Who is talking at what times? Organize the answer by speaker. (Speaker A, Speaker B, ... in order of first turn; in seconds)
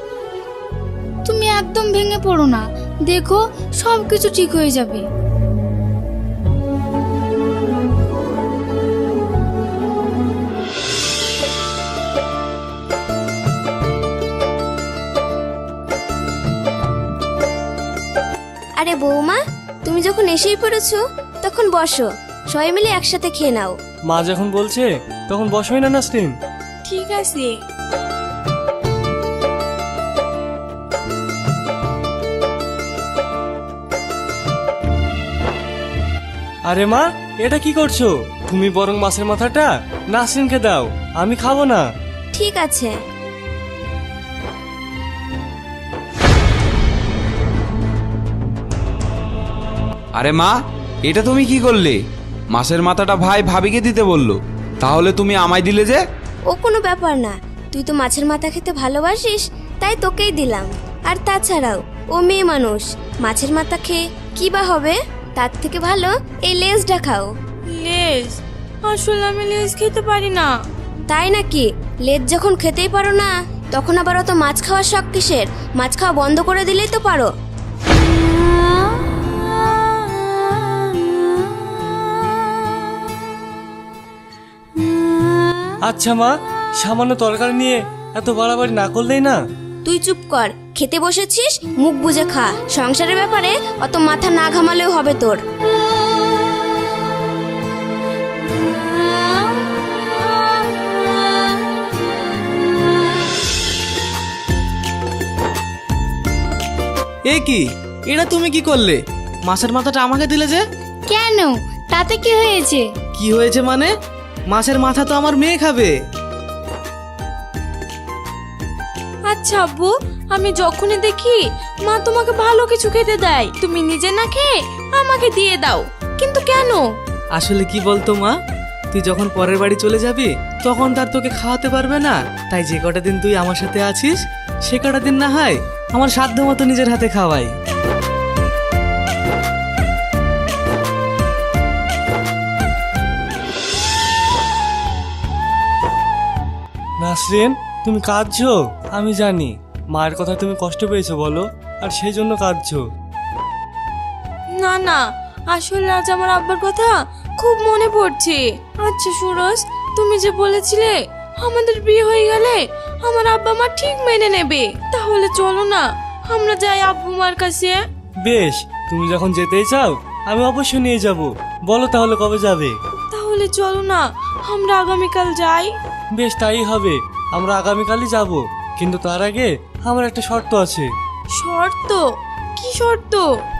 Speaker A: 1.3-5.0, 111.1-112.8
Speaker B: 18.8-23.8, 42.3-43.0, 56.5-67.3, 71.1-77.3, 89.8-95.4
Speaker C: 24.1-26.3, 36.6-41.8, 85.9-89.4, 147.0-152.8, 168.2-172.8, 176.2-180.9
Speaker D: 26.8-27.5, 67.7-70.5, 119.3-126.8, 154.5-167.8, 172.9-175.7, 181.3-182.0, 182.6-183.3
Speaker E: 50.1-52.0, 52.5-56.0
Speaker F: 107.3-110.6, 113.2-113.9, 114.5-115.9, 127.3-128.3, 128.9-137.5